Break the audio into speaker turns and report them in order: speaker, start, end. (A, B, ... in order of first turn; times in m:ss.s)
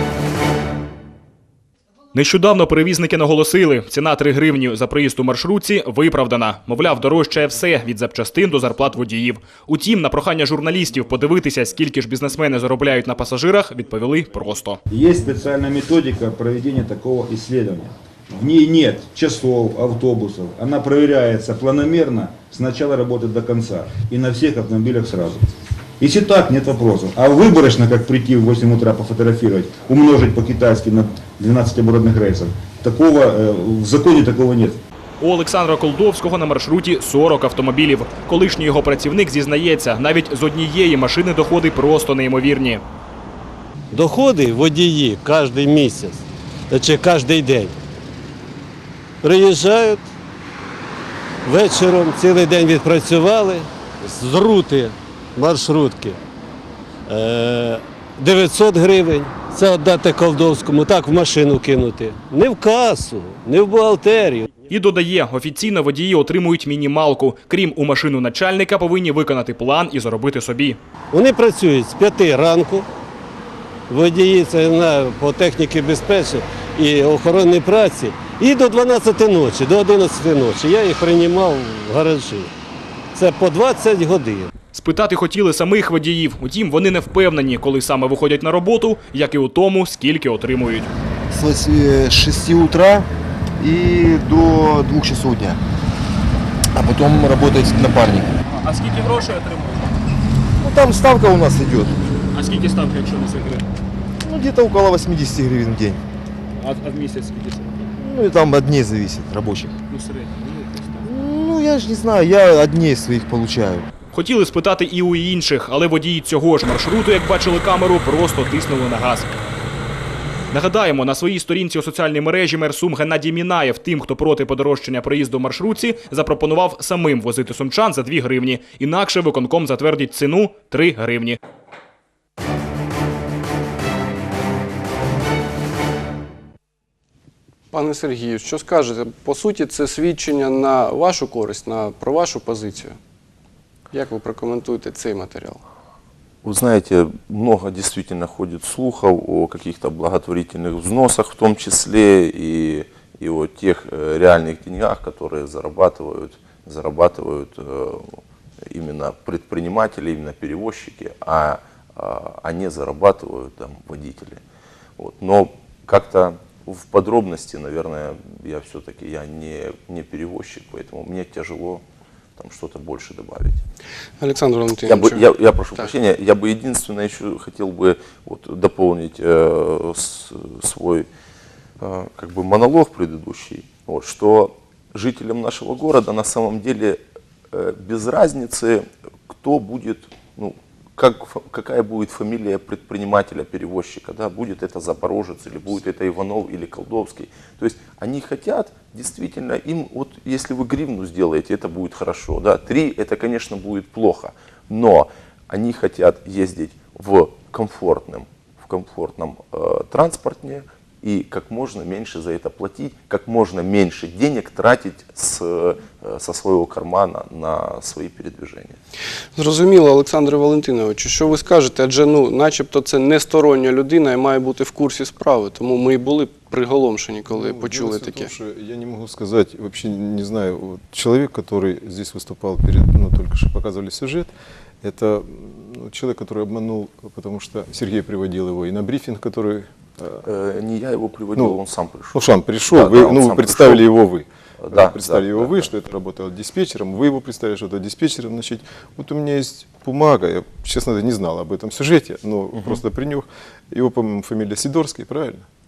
0:02.1-0:14.8 A
0:14.9-0:25.5 B
0:26.0-0:34.8 B
0:35.2-0:42.8 A
0:43.9-0:47.8 C
0:49.2-0:50.1 C
0:51.4-0:56.2 C
0:57.1-1:04.5 C
1:04.7-1:10.8 A
1:11.1-1:12.9 C
1:13.9-1:22.5 C
1:23.1-1:24.5 C
1:24.7-1:30.9 A
1:31.3-1:35.6 D
1:36.7-1:38.3 D
1:38.5-1:39.8 A
1:40.6-1:42.0 D
1:42.3-1:43.6 A
1:44.2-1:46.0 D
1:46.6-1:47.8 A
1:48.0-1:49.8 D
1:49.9-1:51.0 A
1:51.0-1:53.9 D
1:54.1-1:59.3 A
2:00.5-2:11.4 A
2:17.7-2:23.0 E
2:23.9-2:25.6 E
2:26.4-2:38.2 F
2:38.7-2:44.4 F
2:45.0-2:51.8 F
2:52.4-2:53.6 F
2:54.2-2:55.2 E
2:54.8-3:01.1 F
3:01.8-3:07.0 F
3:07.5-3:38.8 F
3:39.4-3:48.3 E
3:47.3-4:00.2 G
4:00.2-4:03.8 F
4:02.1-4:15.5 G
4:04.6-4:05.6 F